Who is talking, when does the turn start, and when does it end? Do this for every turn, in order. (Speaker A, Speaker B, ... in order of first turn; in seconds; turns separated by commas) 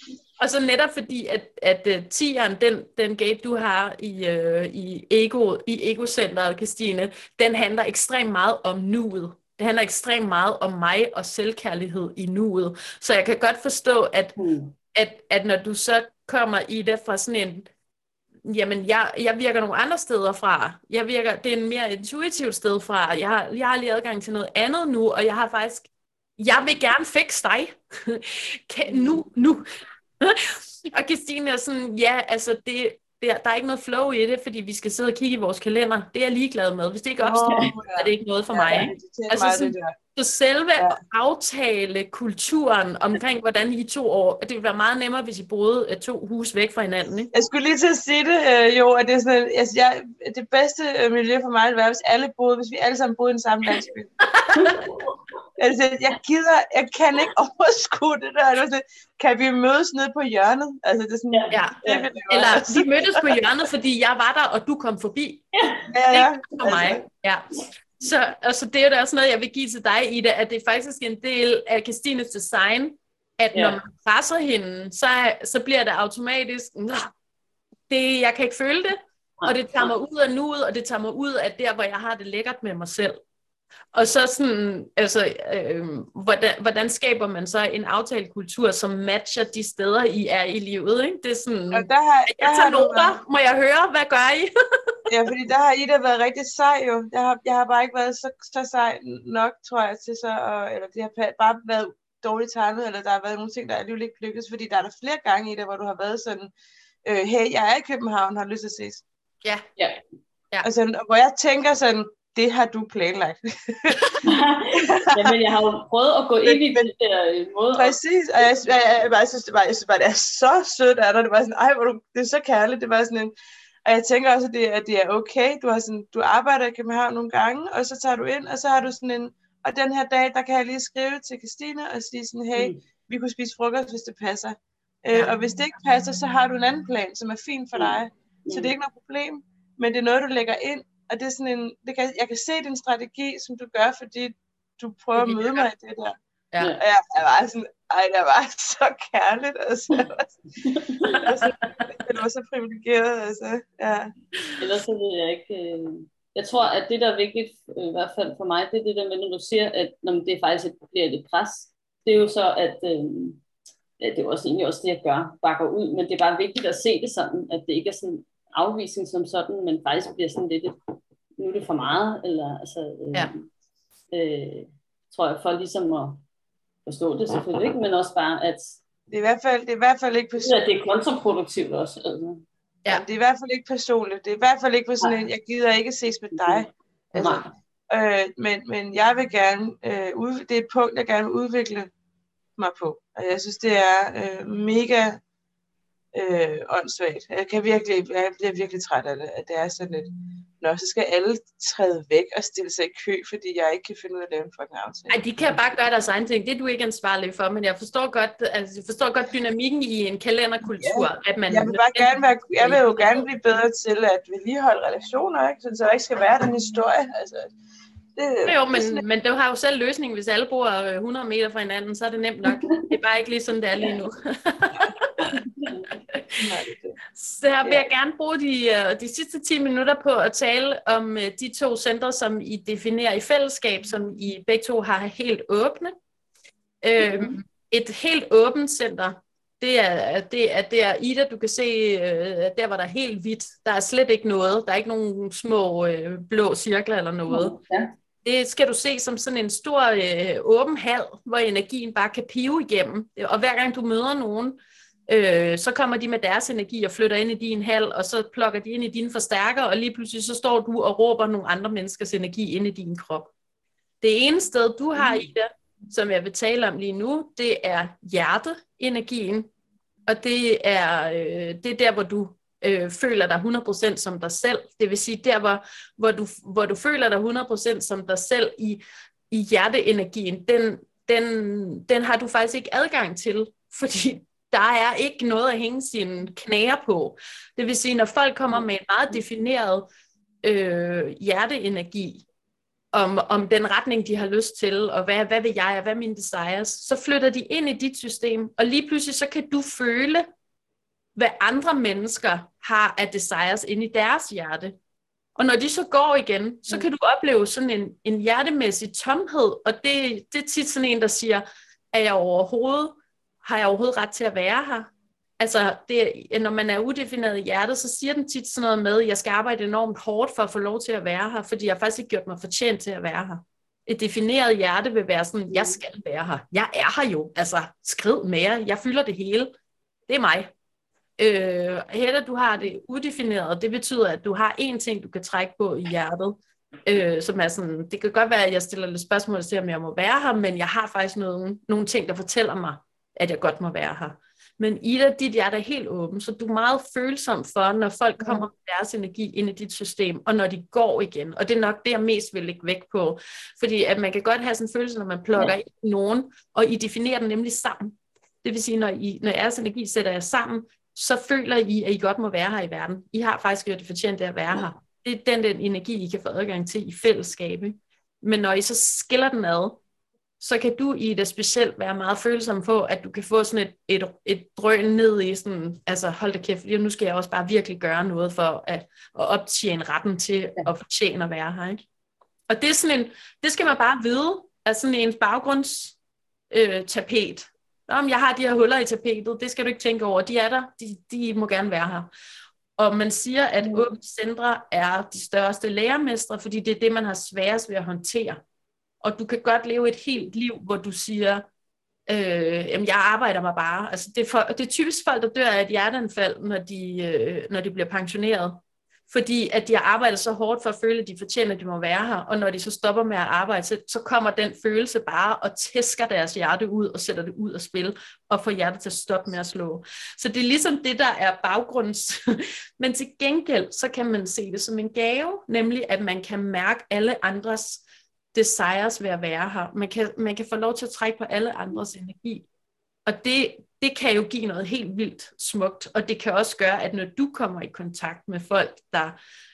Speaker A: 0.4-14.4, Speaker B: 14.4-14.7, Speaker A: 14.9-17.7, Speaker A: 18.4-29.6, Speaker A: 30.2-47.3, Speaker C: 37.2-40.0, Speaker B: 37.5-37.7, Speaker C: 47.3-54.1, Speaker A: 54.4-54.7, Speaker B: 54.5-55.1, Speaker C: 55.6-63.2, Speaker B: 61.3-62.1, Speaker A: 61.5-65.5, Speaker B: 65.5-65.9, Speaker C: 65.9-67.0, Speaker A: 66.1-77.1, Speaker A: 77.9-83.2, Speaker B: 79.4-79.9, Speaker A: 83.9-94.5, Speaker C: 91.7-93.2, Speaker C: 95.1-106.5, Speaker C: 107.0-109.0, Speaker C: 110.6-114.0, Speaker B: 114.2-118.0, Speaker C: 114.8-115.4, Speaker C: 116.5-116.9, Speaker C: 117.8-123.3, Speaker C: 123.9-146.2, Speaker B: 132.6-132.8, Speaker B: 137.8-138.7, Speaker A: 145.3-145.7, Speaker C: 146.8-150.4, Speaker B: 150.6-151.2, Speaker C: 151.2-154.1, Speaker A: 151.2-151.9, Speaker B: 154.6-163.4, Speaker B: 164.0-170.8, Speaker B: 171.4-173.5, Speaker B: 174.1-176.2, Speaker B: 176.9-178.8, Speaker C: 179.1-180.6, Speaker B: 180.4-182.4, Speaker C: 182.9-187.4, Speaker B: 186.4-187.5, Speaker C: 187.9-191.9, Speaker C: 192.6-195.2, Speaker C: 196.1-205.2, Speaker A: 205.1-213.1, Speaker C: 210.8-217.5, Speaker C: 218.2-219.0, Speaker A: 218.4-225.4, Speaker B: 222.5-222.9, Speaker B: 225.4-225.9, Speaker C: 226.4-227.0, Speaker A: 227.2-235.9, Speaker C: 227.6-227.9, Speaker A: 236.8-247.6, Speaker B: 237.0-237.4, Speaker B: 247.3-247.9, Speaker A: 248.2-263.3, Speaker A: 264.0-269.5, Speaker B: 265.0-265.3, Speaker A: 270.1-289.9, Speaker A: 290.4-292.2, Speaker A: 292.9-300.3, Speaker A: 301.2-304.8, Speaker A: 305.4-329.5, Speaker B: 325.5-325.8, Speaker A: 330.1-330.5, Speaker A: 331.2-369.8, Speaker B: 348.2-348.5, Speaker A: 370.4-381.8, Speaker A: 382.5-386.0, Speaker A: 386.5-392.1, Speaker A: 392.8-398.4, Speaker B: 393.6-393.9, Speaker A: 399.0-401.4, Speaker A: 402.1-432.5, Speaker A: 433.1-439.2